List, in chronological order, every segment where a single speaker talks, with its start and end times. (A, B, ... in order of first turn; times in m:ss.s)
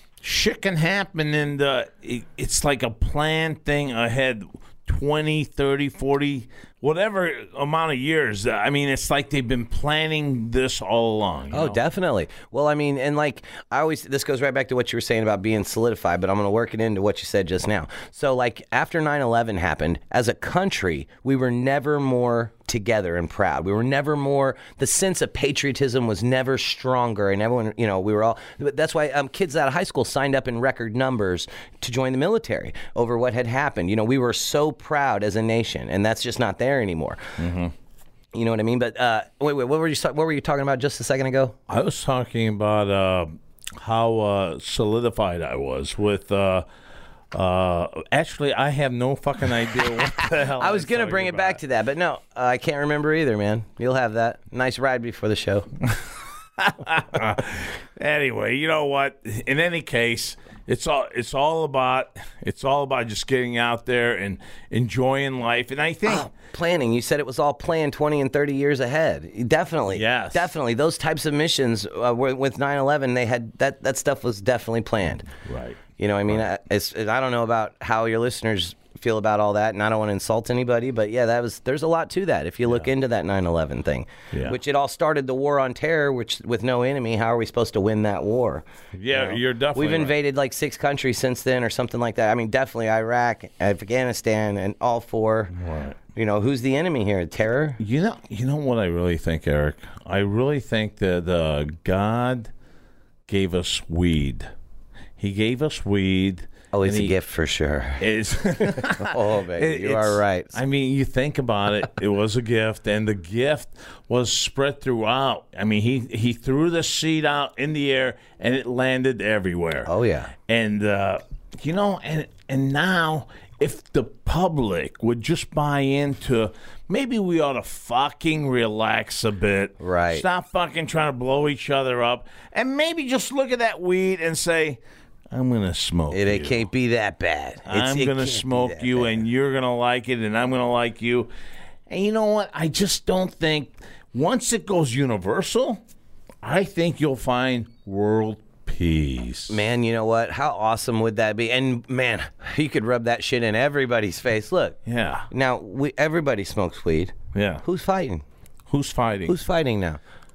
0:00.2-0:11.8 A
0:11.5-0:37.2 B
0:37.4-0:37.7 A
0:38.3-0:41.6 B
0:41.7-0:46.6 A
0:47.3-0:51.6 A
0:50.0-0:55.7 B
0:56.6-1:06.3 A
1:06.0-1:15.3 B
1:09.9-1:10.5 A
1:15.4-1:16.4 A
1:16.0-1:35.5 B
1:29.0-1:30.1 A
1:35.5-1:36.0 A
1:36.1-1:37.8 B
1:37.8-1:42.5 A
1:43.3-1:44.5 A
1:45.2-1:47.1 A
1:46.7-1:48.0 B
1:48.0-1:59.9 A
1:48.6-1:50.5 B
1:59.8-2:00.3 B
2:00.5-2:14.8 A
2:09.8-2:10.2 B
2:15.3-2:16.6 A
2:16.1-2:19.2 B
2:17.7-2:21.3 A
2:21.9-2:25.8 A
2:26.4-2:29.6 A
2:29.5-2:34.8 B
2:34.8-2:35.3 A
2:35.3-2:38.2 B
2:37.3-2:37.6 A
2:38.7-2:39.4 A
2:39.3-2:40.0 B